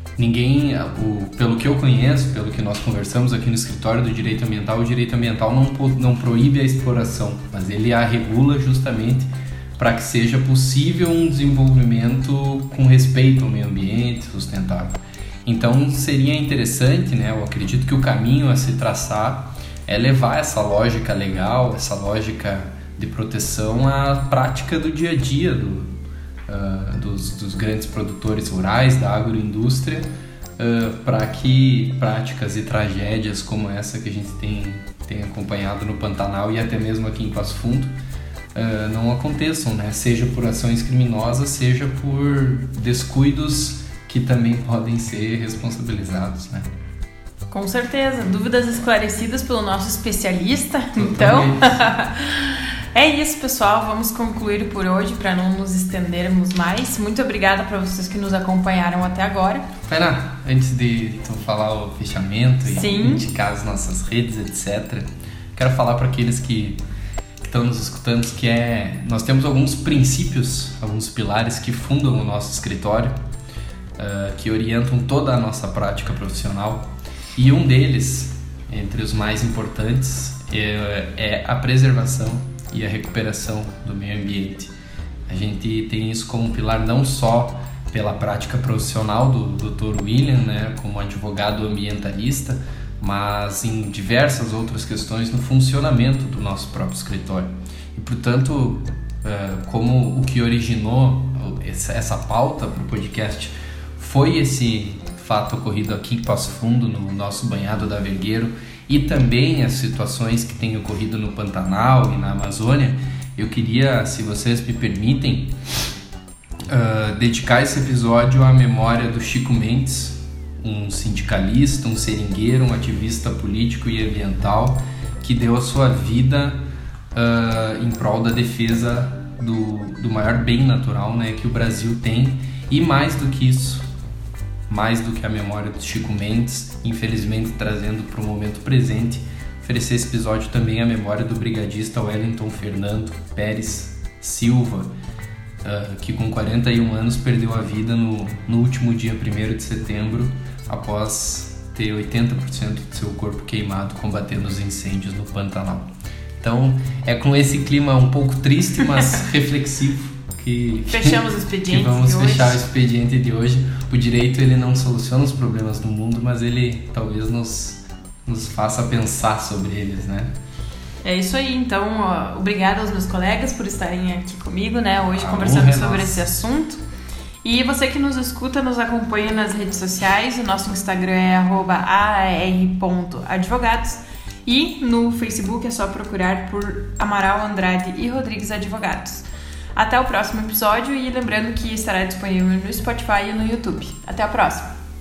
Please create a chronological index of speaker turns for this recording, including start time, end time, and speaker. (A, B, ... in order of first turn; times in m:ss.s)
0:00.2-0:15.0 A
0:15.5-0:25.9 A
0:26.5-0:30.1 A
0:30.6-0:37.9 A
0:38.5-0:46.7 A
0:47.5-0:59.7 B
0:51.0-0:51.8 A
0:59.9-1:06.8 A
1:02.7-1:03.2 B
1:07.4-1:13.2 A
1:14.0-1:24.7 A
1:25.3-1:55.5 A
1:56.7-2:06.6 A
2:07.1-2:13.8 A
2:14.7-2:24.9 A
2:25.6-2:35.9 A
2:36.4-2:50.3 A
2:40.9-2:42.6 B
2:51.0-2:56.8 B
2:55.2-2:56.2 A
2:57.4-3:14.7 B